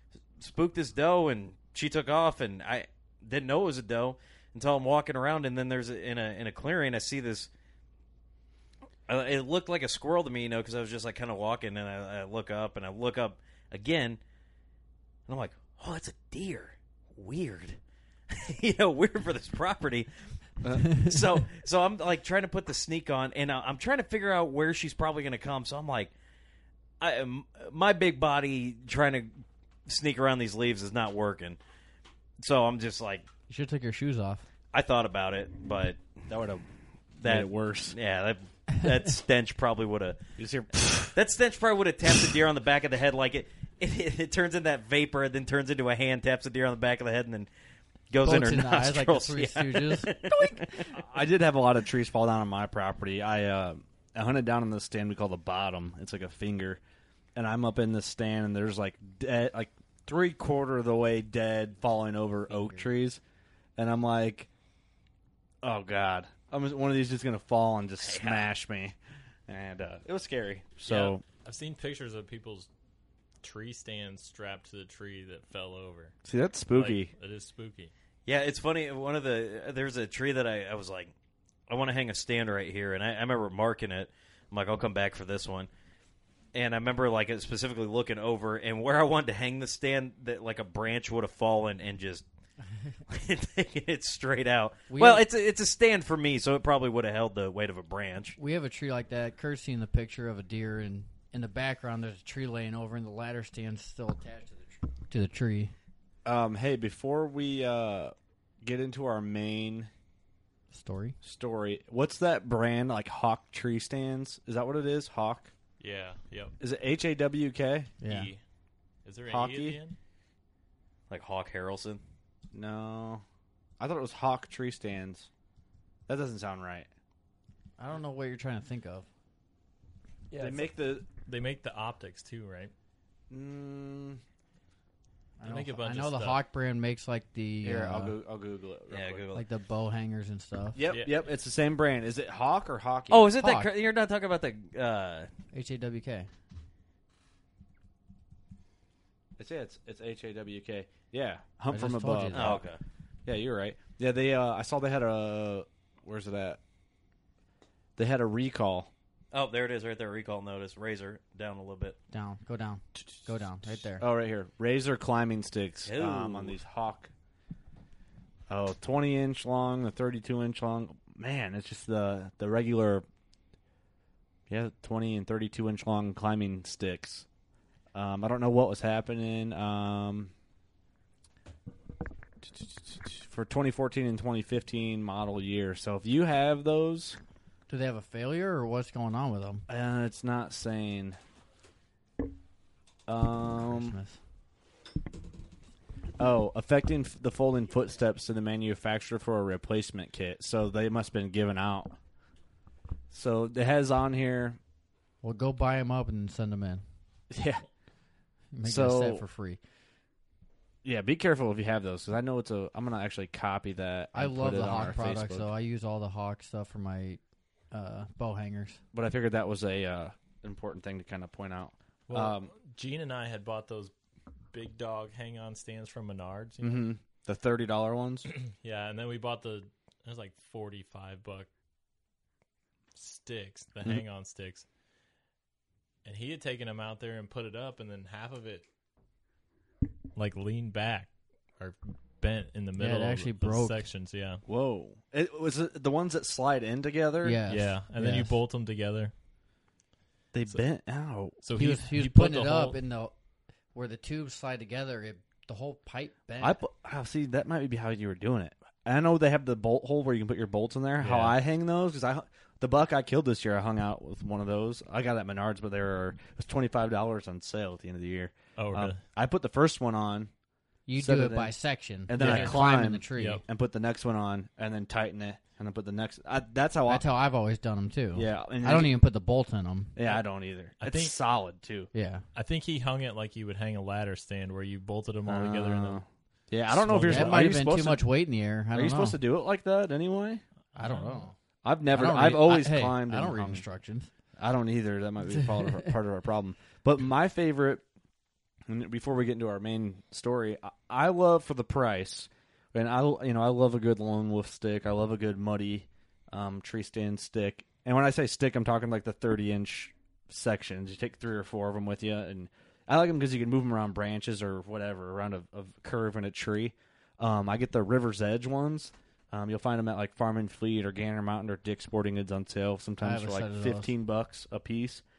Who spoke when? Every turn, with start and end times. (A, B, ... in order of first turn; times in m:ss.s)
0:00.4-0:07.5 A
0:09.1-0:14.2 A
0:15.3-0:20.1 A
0:20.6-0:20.9 B
0:20.8-0:26.1 A
0:27.0-0:29.3 A
0:29.9-0:31.6 A
0:32.4-0:33.3 A
0:33.5-0:34.4 C
0:34.7-0:36.0 A
0:36.3-0:36.6 B
0:37.2-0:40.2 A
0:37.2-0:38.0 B
0:40.4-0:41.1 B
0:41.0-0:47.5 A
0:48.1-0:50.9 A
0:48.2-0:50.2 C
0:50.9-0:56.8 B
0:57.4-1:03.2 B
1:02.5-1:02.9 C
1:03.8-1:04.5 B
1:05.6-1:09.0 B
1:08.0-1:08.5 A
1:09.5-1:11.2 B
1:10.9-1:12.7 D
1:13.4-1:16.1 D
1:16.2-1:17.1 B
1:16.7-1:17.9 D
1:18.3-1:21.1 A
1:21.7-1:25.7 A
1:26.5-1:32.2 A
1:33.1-1:38.4 A
1:34.9-1:35.2 C
1:38.4-1:45.7 C
1:46.2-1:49.9 B
1:50.7-1:51.2 C
1:51.2-1:55.5 B
1:55.8-1:56.6 D
1:56.6-1:57.9 B
1:58.0-1:58.3 C
1:58.0-1:58.4 D
1:59.0-2:00.0 D
1:59.3-1:59.8 B
2:01.1-2:02.0 A
2:02.5-2:03.2 B
2:03.8-2:05.3 B
2:06.1-2:06.9 B
2:07.8-2:09.1 C
2:10.3-2:12.7 D
2:10.3-2:11.1 B
2:13.3-2:14.2 B
2:15.4-2:18.2 C
2:15.4-2:16.4 D
2:17.6-2:19.3 B
2:18.9-2:19.4 A
2:19.4-2:20.8 C
2:20.8-2:23.3 B
2:20.9-2:21.1 D
2:23.1-2:25.3 A
2:23.4-2:23.7 C
2:25.5-2:26.3 C
2:29.4-2:32.6 B
2:31.7-2:32.6 C
2:32.3-2:32.8 A
2:33.3-2:36.6 B
2:38.0-2:38.9 B
2:39.3-2:42.0 A
2:42.1-2:44.0 C
2:44.0-2:47.1 B
2:45.9-2:46.6 A
2:48.5-2:53.0 B
2:54.5-2:57.3 B
2:57.9-3:00.3 B
3:02.4-3:07.2 B
3:07.7-3:09.6 C
3:09.7-3:11.2 B
3:13.1-3:14.0 B
3:13.7-3:14.2 C
3:16.2-3:22.0 B
3:23.1-3:24.6 B
3:25.2-3:26.8 C
3:27.3-3:27.6 B
3:28.5-3:29.6 C
3:28.6-3:29.2 B
3:30.8-3:35.5 B
3:34.1-3:38.8 C
3:38.9-3:42.5 B
3:42.1-3:43.9 D
3:44.5-3:46.9 D
3:46.6-3:48.3 B
3:48.4-3:51.5 D
3:53.0-3:54.7 D
3:56.0-3:58.6 D
4:00.2-4:04.4 D
4:02.8-4:03.9 C
4:04.5-4:07.4 B
4:07.2-4:08.3 C
4:07.5-4:09.1 D
4:10.3-4:12.0 B
4:11.4-4:12.8 D
4:11.6-4:13.1 C
4:13.7-4:16.6 C
4:16.4-4:30.3 B
4:21.0-4:21.4 D
4:28.6-4:29.0 D
4:30.9-4:33.4 C
4:31.0-4:31.6 B
4:32.1-4:37.0 B
4:32.2-4:33.4 D
4:36.9-4:39.9 C
4:38.2-4:39.0 B
4:40.0-4:41.9 B
4:40.8-4:41.2 D
4:41.9-4:42.2 C
4:42.4-4:46.0 D
4:45.3-4:48.0 B
4:46.7-4:49.2 C
4:48.7-4:50.4 B
4:50.8-4:51.3 C
4:50.8-4:51.2 D
4:51.6-4:53.6 B
4:51.9-4:54.1 C
4:54.4-4:57.8 B
4:58.7-5:25.0 B
5:23.0-5:23.9 C